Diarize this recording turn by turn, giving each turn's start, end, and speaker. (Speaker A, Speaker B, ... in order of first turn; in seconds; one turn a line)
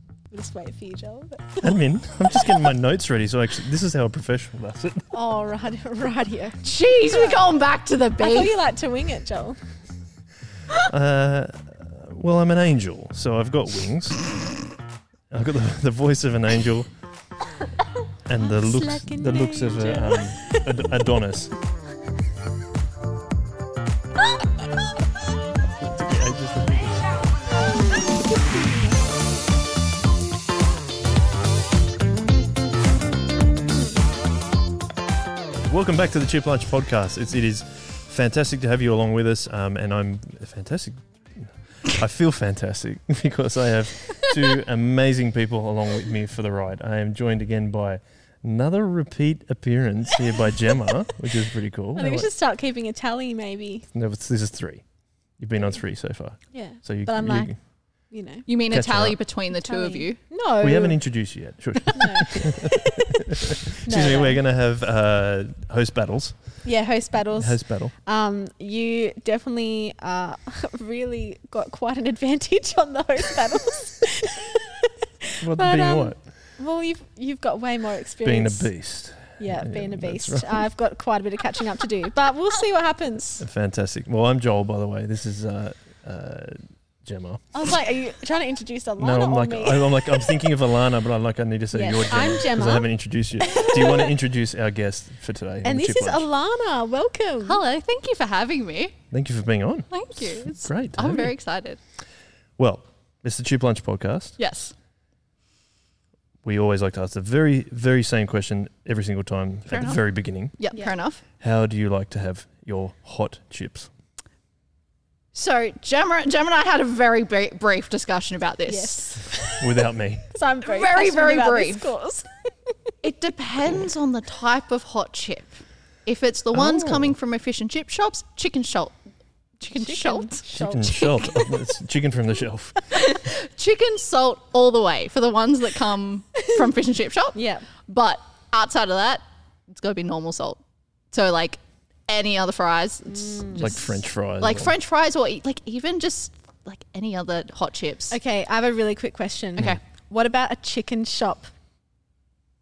Speaker A: 0.3-1.7
Speaker B: 1.6-5.1
Speaker A: 2.3-2.6
Speaker A: 5.1-7.5
Speaker C: 6.6-8.5
Speaker A: 8.2-9.6
Speaker B: 10.9-14.3
Speaker B: 15.3-16.9
Speaker B: 18.2-21.5
Speaker A: 18.4-20.7
Speaker B: 25.8-27.3
Speaker B: 35.6-52.3
Speaker A: 51.9-53.9
Speaker B: 53.9-57.6
Speaker A: 56.5-58.5
Speaker C: 58.5-60.2
Speaker B: 58.7-59.2
Speaker A: 59.6-61.0
Speaker B: 60.6-62.7
Speaker A: 61.9-63.0
Speaker A: 63.8-64.4
Speaker B: 63.8-66.7
Speaker A: 66.6-74.8
Speaker B: 67.4-67.9
Speaker A: 75.4-83.5
Speaker B: 75.4-76.3
Speaker B: 78.2-80.7
Speaker B: 83.4-87.7
Speaker A: 87.5-90.4
Speaker B: 89.0-96.3
Speaker A: 91.7-92.9
Speaker A: 93.4-94.1
Speaker A: 95.6-97.6
Speaker C: 97.4-99.0
Speaker B: 99.1-101.3
Speaker C: 99.9-101.8
Speaker B: 102.6-104.4
Speaker C: 104.4-104.7
Speaker B: 106.4-110.6
Speaker C: 109.7-111.2
Speaker B: 111.4-113.9
Speaker C: 115.3-119.5
Speaker A: 118.7-119.6
Speaker B: 119.6-120.2
Speaker A: 120.3-122.9
Speaker C: 120.6-121.9
Speaker C: 123.0-128.9
Speaker B: 126.5-127.2
Speaker C: 129.6-131.2
Speaker A: 129.8-131.5
Speaker B: 130.5-133.0
Speaker A: 132.8-133.1
Speaker C: 132.9-140.6
Speaker A: 136.4-136.7
Speaker A: 137.3-137.7
Speaker C: 141.1-148.2
Speaker A: 143.1-143.7
Speaker B: 143.5-144.7
Speaker A: 148.1-151.5